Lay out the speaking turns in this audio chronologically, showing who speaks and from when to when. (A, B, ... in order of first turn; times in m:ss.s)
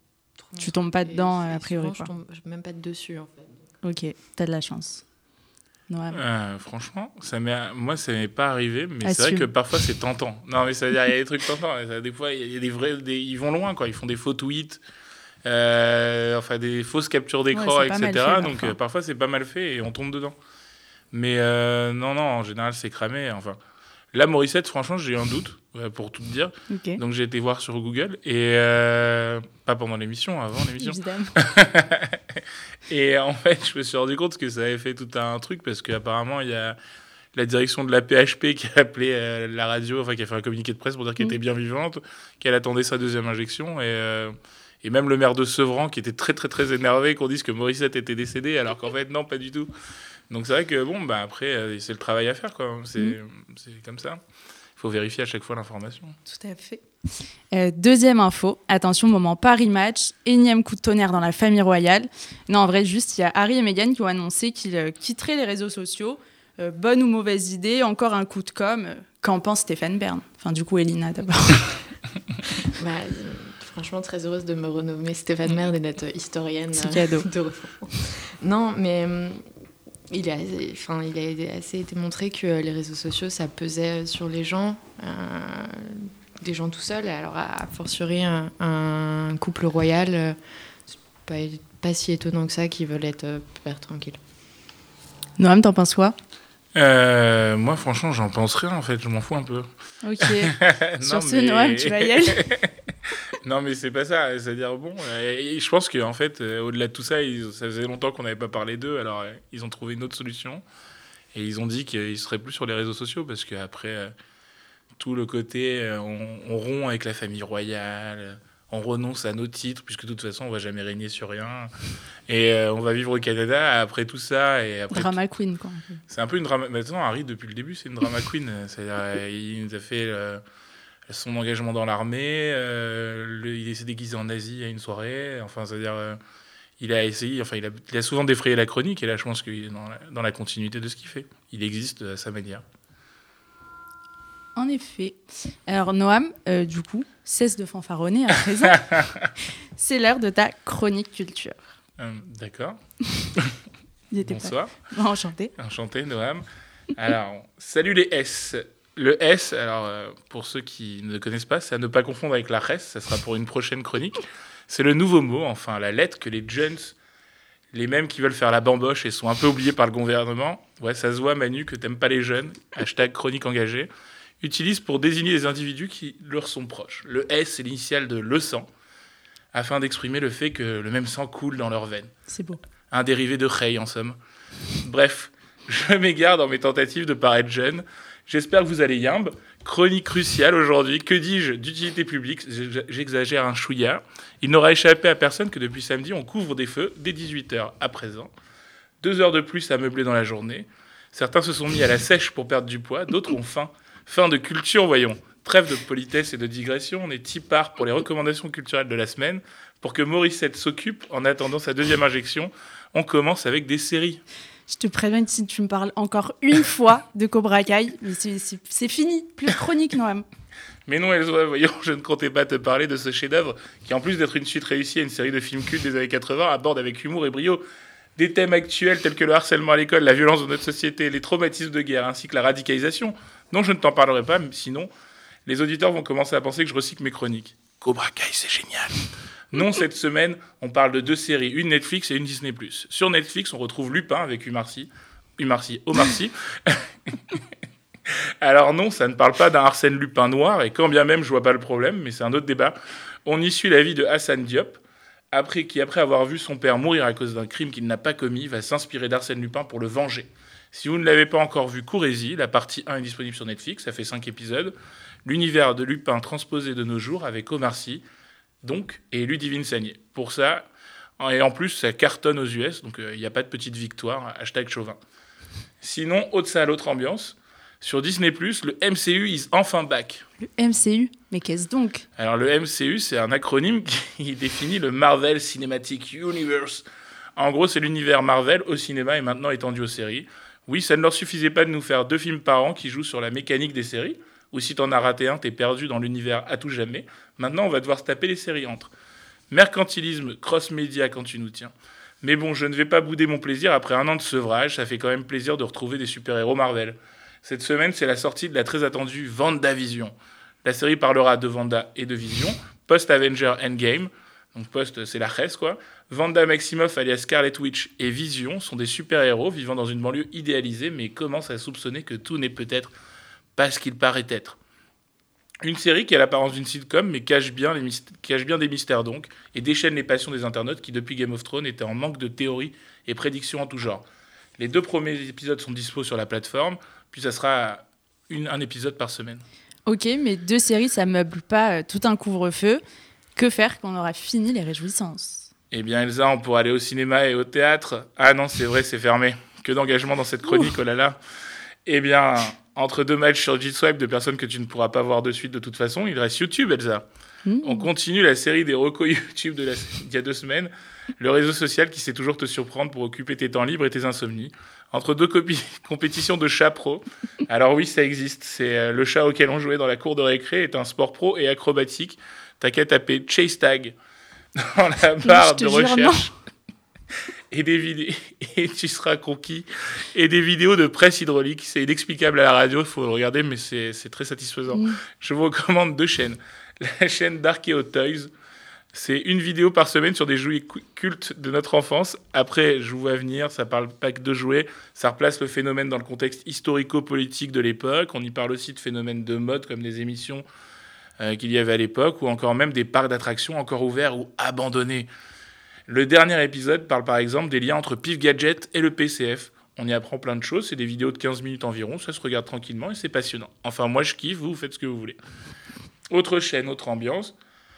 0:00.4-0:03.7 A
0:00.6-0:02.1 B
0:03.8-0:05.0 B
0:05.9-0:06.2 B
0:06.1-0:14.8 C
0:09.0-0:09.5 B
0:15.4-0:20.3 C
0:17.5-0:18.7 B
0:21.1-0:23.6 C
0:24.1-0:32.2 C
0:26.7-0:27.0 B
0:30.8-0:31.3 B
0:32.9-0:36.8 C
0:37.3-0:49.7 C
0:50.3-0:54.2 C
0:54.8-0:56.2 C
0:56.2-0:56.8 B
0:57.5-1:11.8 B
1:12.7-1:19.4 A
1:16.8-1:17.3 B
1:20.1-1:30.4 A
1:30.9-1:34.2 A
1:35.4-1:36.2 B
1:36.7-1:39.7 C
1:40.0-1:42.4 B
1:40.3-1:42.7 C
1:43.4-1:50.6 C
1:51.3-1:54.1 C
1:55.0-2:01.7 C
2:02.3-2:05.2 C
2:04.9-2:06.0 B
2:06.1-2:10.4 C
2:11.1-2:16.2 C
2:16.8-2:22.6 C
2:24.6-2:28.8 B
2:29.8-2:31.7 B
2:32.0-2:32.8 C
2:34.1-2:35.5 B
2:34.2-2:34.7 C
2:35.6-2:46.9 C
2:47.7-2:53.9 C
2:54.4-2:58.7 C
2:59.5-3:02.1 C
3:02.3-3:02.6 B
3:02.9-3:04.2 C
3:04.8-3:18.3 C
3:19.0-3:34.2 C
3:34.7-3:40.2 B
3:40.9-3:47.6 C
3:48.2-3:54.9 C
3:55.4-4:07.4 C
4:08.4-4:12.7 C
4:13.2-4:14.8 C
4:15.3-4:24.7 C
4:25.2-4:28.0 C
4:28.6-4:30.6 C
4:31.2-4:35.0 C
4:35.8-4:40.2 C
4:40.4-4:42.0 B
4:42.2-4:46.8 C
4:47.4-4:58.9 C
4:59.5-5:22.9 C
5:23.6-5:24.6 C
5:25.6-5:34.0 C
5:34.6-5:39.4 C
5:39.9-5:42.8 B
5:43.4-5:45.5 B
5:45.7-5:51.2 C
5:51.8-5:57.1 C
5:57.4-5:57.9 B
5:57.6-6:14.0 C
6:14.6-6:16.3 C
6:15.2-6:16.3 B
6:17.5-6:28.3 C
6:24.7-6:25.0 B
6:28.9-6:40.4 C
6:41.2-6:45.1 C
6:45.9-6:55.2 C
6:56.1-6:57.3 C